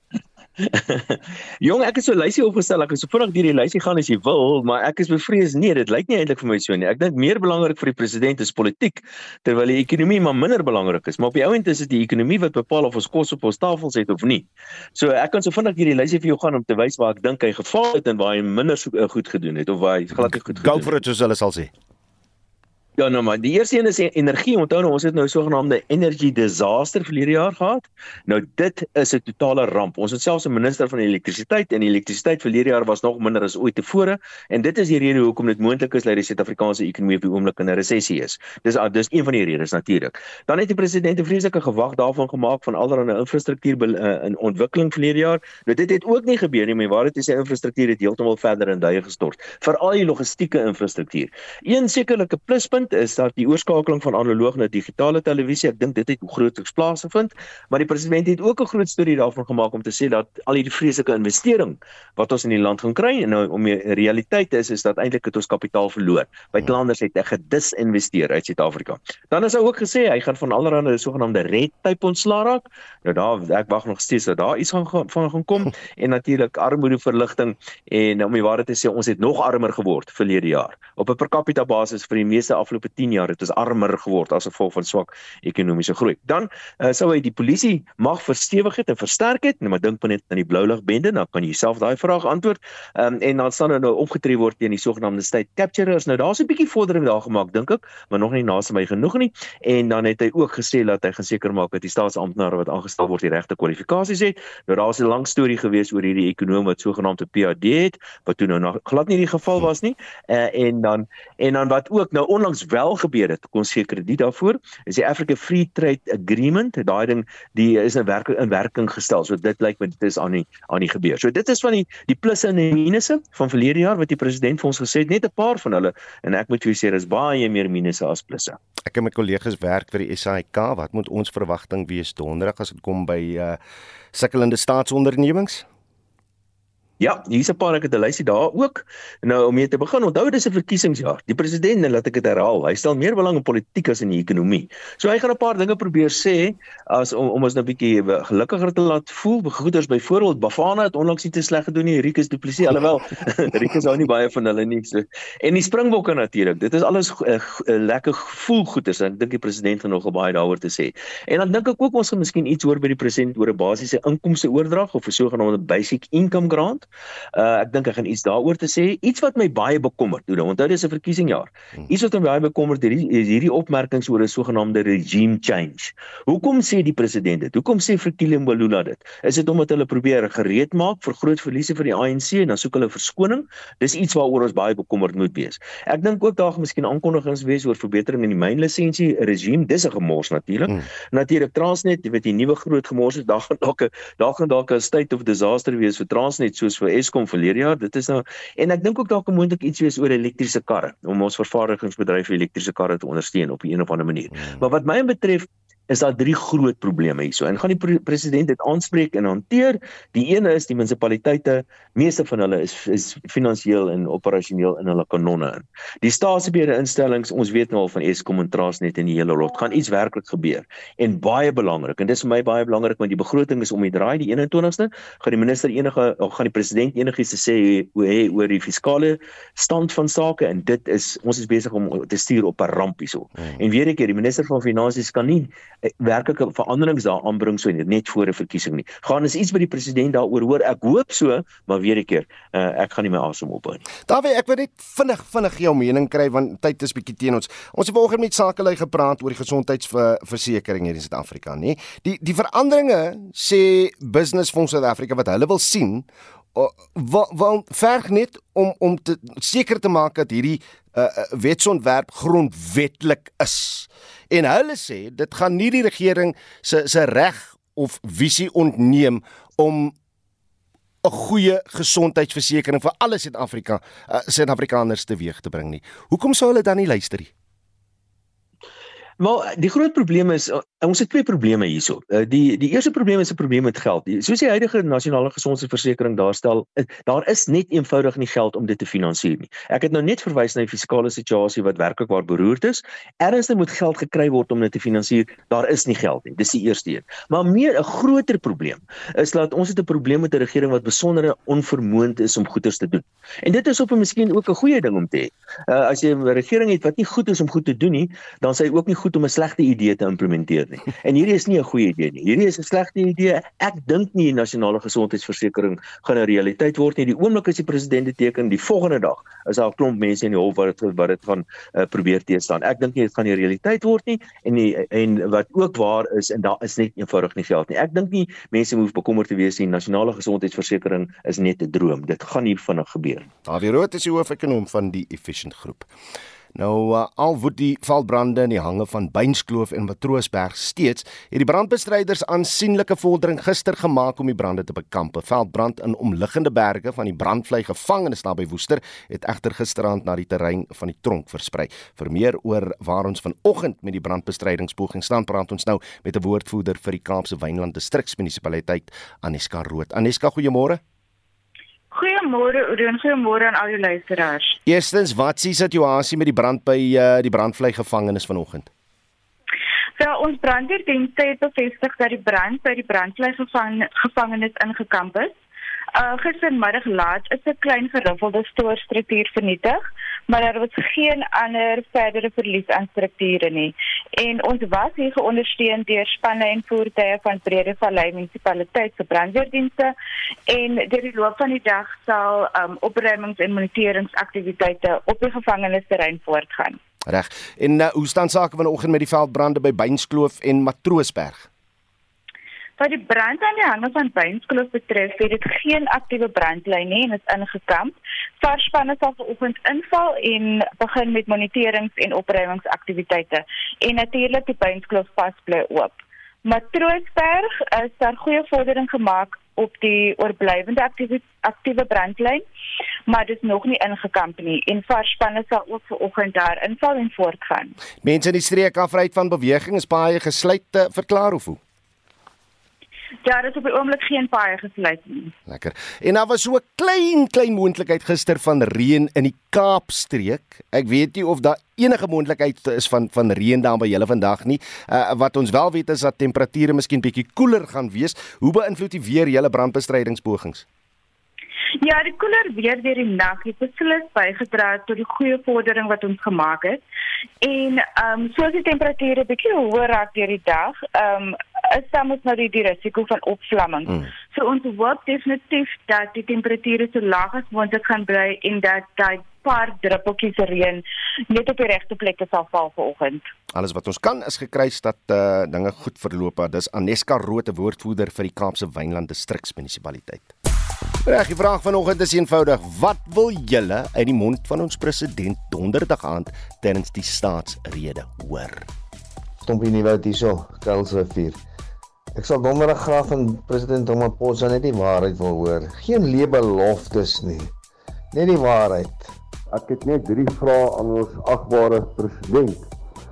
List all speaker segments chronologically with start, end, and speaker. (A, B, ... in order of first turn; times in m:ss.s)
0:00.6-0:21.0 A
0:20.2-0:21.7 B
0:23.0-2:08.6 A
2:08.8-2:13.6 B
2:14.1-2:15.7 B
2:17.0-4:03.8 A
3:24.4-3:24.6 B
4:04.1-4:29.9 B
4:31.0-4:37.3 B
4:39.2-5:33.3 A
5:33.5-5:35.9 B
5:36.6-6:00.8 B
6:01.9-6:04.6 C
6:04.6-6:08.7 B
6:10.0-6:15.4 C
6:16.0-6:29.9 C
6:30.5-6:36.8 C
6:37.1-6:41.5 B
6:42.8-7:02.4 C
7:03.1-7:07.8 C
7:08.0-7:11.6 B
7:13.2-7:15.3 C
7:15.5-7:30.7 B
7:31.8-7:36.8 C
7:37.4-7:53.3 C
7:53.5-8:00.3 B
8:01.0-8:08.7 B
8:09.4-8:11.4 D
8:12.2-8:17.5 D
8:18.1-8:19.1 D
8:19.5-8:22.7 E